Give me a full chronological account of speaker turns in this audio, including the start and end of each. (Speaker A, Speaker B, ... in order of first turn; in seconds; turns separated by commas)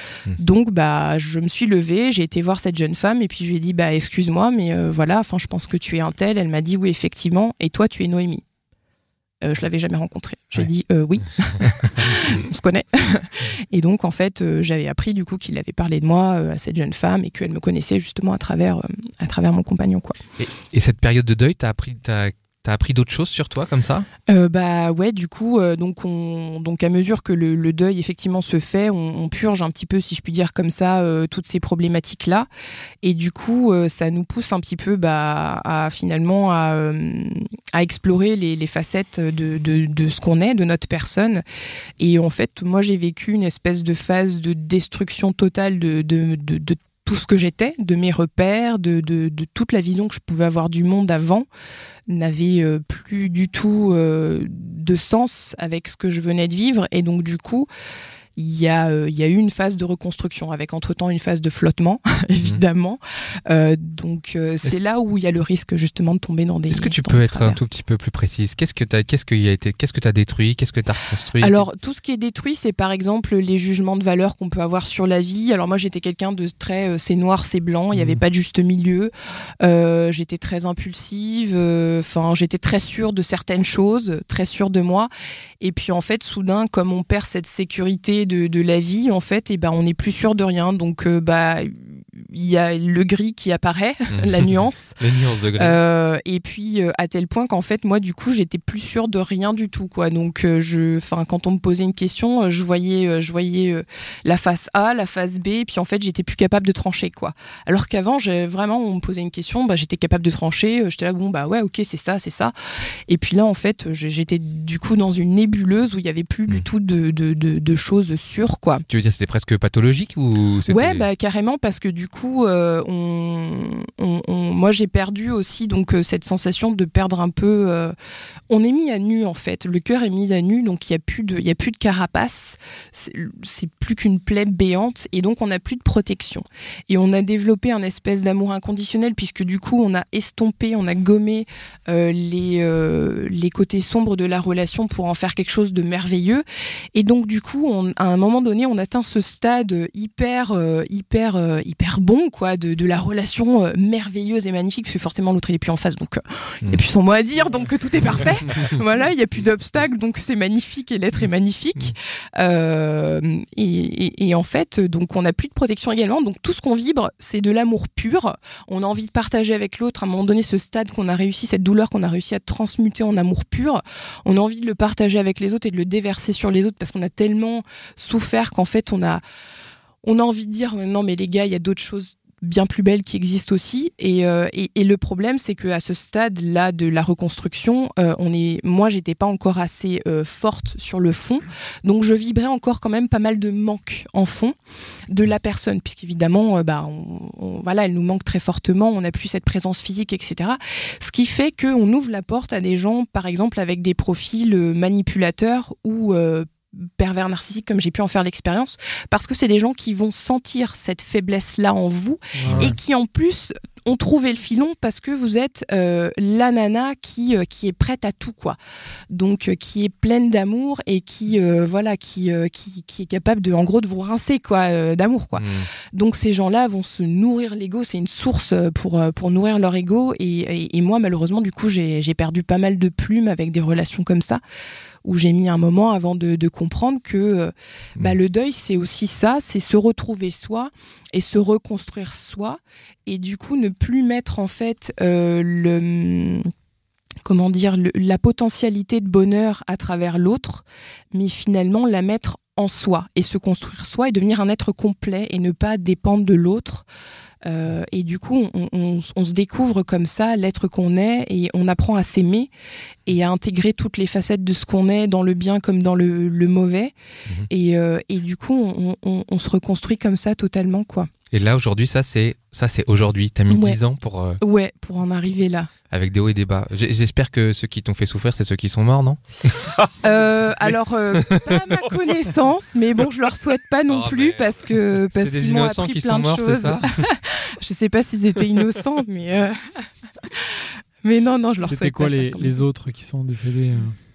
Speaker A: 0.4-8.4, Speaker A: 9.4-20.2, Speaker B: 20.7-24.1, Speaker A: 24.3-32.5, Speaker A: 33.0-41.4, Speaker A: 42.0-51.5, Speaker A: 52.1-57.7, Speaker A: 58.4-67.6, Speaker B: 66.7-71.6, Speaker A: 71.4-95.0, Speaker B: 77.9-78.2, Speaker B: 94.1-95.8, Speaker A: 95.6-112.5, Speaker A: 113.1-118.8, Speaker B: 118.9-121.1, Speaker A: 120.7-128.0, Speaker A: 128.5-179.2, Speaker A: 180.0-194.6, Speaker A: 195.1-218.6, Speaker C: 212.3-212.7, Speaker B: 212.5-212.7, Speaker A: 219.1-234.4, Speaker B: 225.4-225.7, Speaker A: 235.0-246.5, Speaker A: 247.2-256.9, Speaker A: 257.4-262.5, Speaker A: 263.1-266.9, Speaker A: 267.5-271.1, Speaker B: 271.3-274.4, Speaker A: 273.5-273.8, Speaker A: 274.4-275.7, Speaker B: 275.9-279.2, Speaker A: 280.0-292.6, Speaker B: 283.9-287.1, Speaker C: 291.6-294.0